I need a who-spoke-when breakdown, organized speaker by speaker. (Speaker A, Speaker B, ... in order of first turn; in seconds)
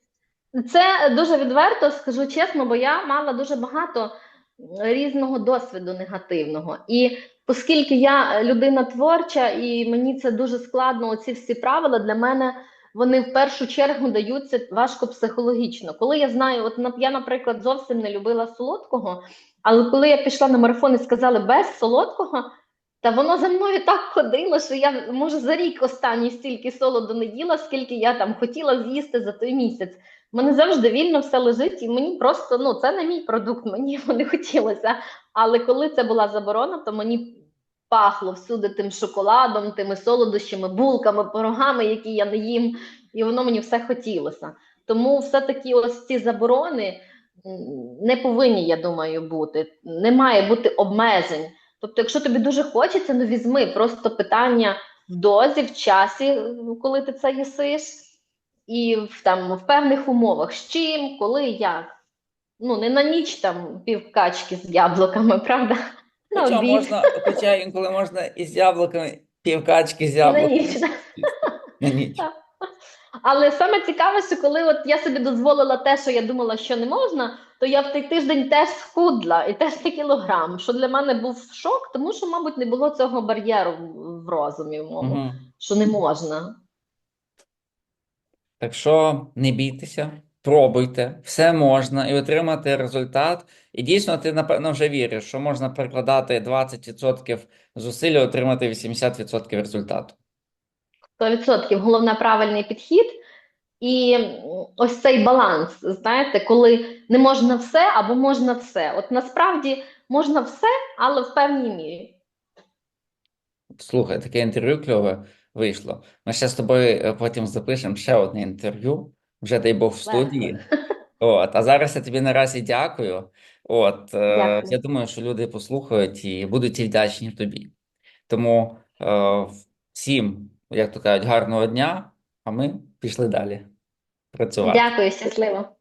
Speaker A: 0.6-22.5, 23.0-58.0, 58.7-61.9, 62.6-65.8, 66.3-67.4, 70.2-71.3, 73.2-86.5, 101.2-103.2, 103.8-112.2, 120.1-120.7, 124.3-124.8, 134.6-135.7
Speaker B: 66.3-72.3, 85.0-85.4, 88.6-100.2, 113.8-120.6, 121.2-127.7, 128.3-133.7, 134.3-134.9